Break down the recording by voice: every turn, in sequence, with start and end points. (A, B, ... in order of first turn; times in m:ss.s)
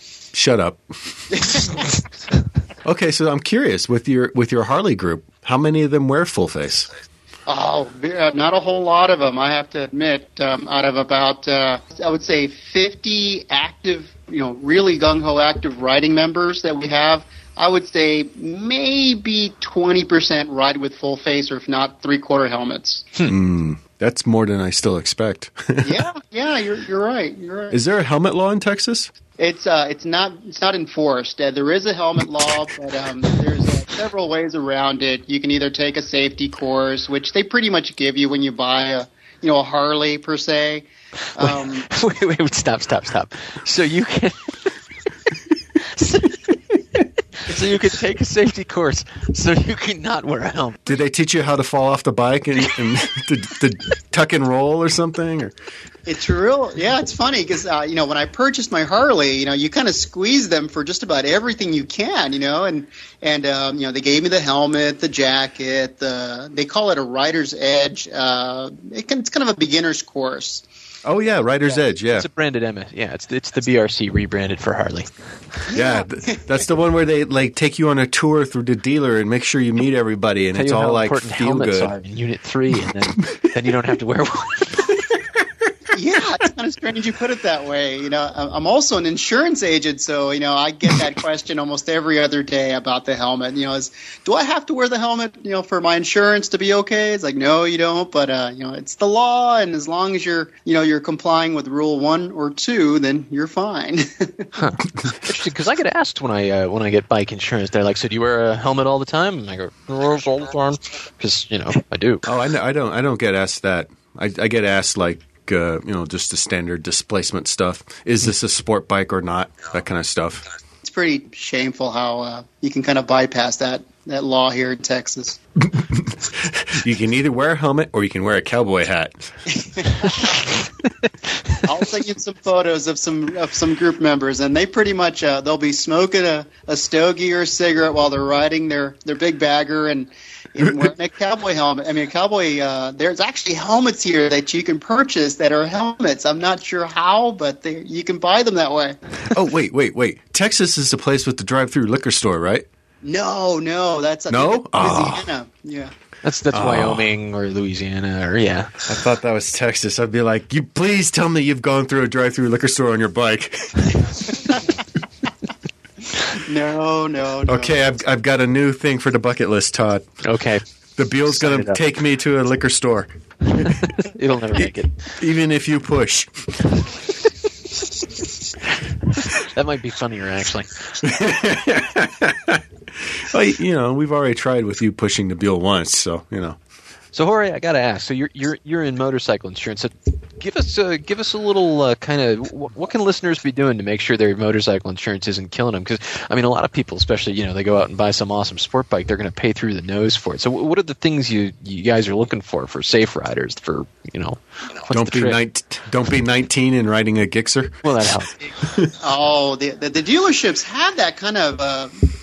0:00.3-0:01.6 A
0:01.3-0:02.0 B
0:02.8-0:06.9 A
0:07.5-0:23.2 B
0:23.2-0:26.0 A
0:25.8-0:27.8 B
0:27.7-0:29.1 A
0:29.4-0:40.8 B
0:41.4-0:41.9 B
0:41.4-0:44.7 C
0:45.9-0:46.3 C
0:47.4-0:51.0 C
0:50.8-0:55.5 A
0:56.0-1:10.6 B
1:11.0-1:12.3 A
1:12.1-1:15.1 C
1:15.7-1:16.4 B
1:15.7-1:21.9 A
1:20.5-1:25.0 C
1:25.9-1:44.5 B
1:44.5-1:52.2 C
1:52.2-2:00.4 A
2:00.8-2:05.4 B
2:05.6-2:09.3 A
2:09.6-2:10.2 B
2:11.6-2:29.3 B
2:20.6-2:20.9 A
2:29.3-2:32.6 A
2:33.0-2:35.9 B
2:34.3-2:35.3 A
2:36.2-2:38.8 C
2:36.5-2:37.1 A
2:38.8-2:44.4 A
2:46.2-2:47.8 B
2:47.4-2:50.0 A
2:50.2-2:50.6 C
2:51.0-2:53.7 A
2:51.3-2:51.8 C
2:53.5-2:55.0 C
2:55.2-2:56.3 A
2:59.3-3:00.7 C
3:01.0-3:06.6 A
3:07.1-3:25.4 C
3:24.9-3:27.9 A
3:27.8-3:28.4 C
3:28.6-3:28.9 A
3:29.0-3:32.0 B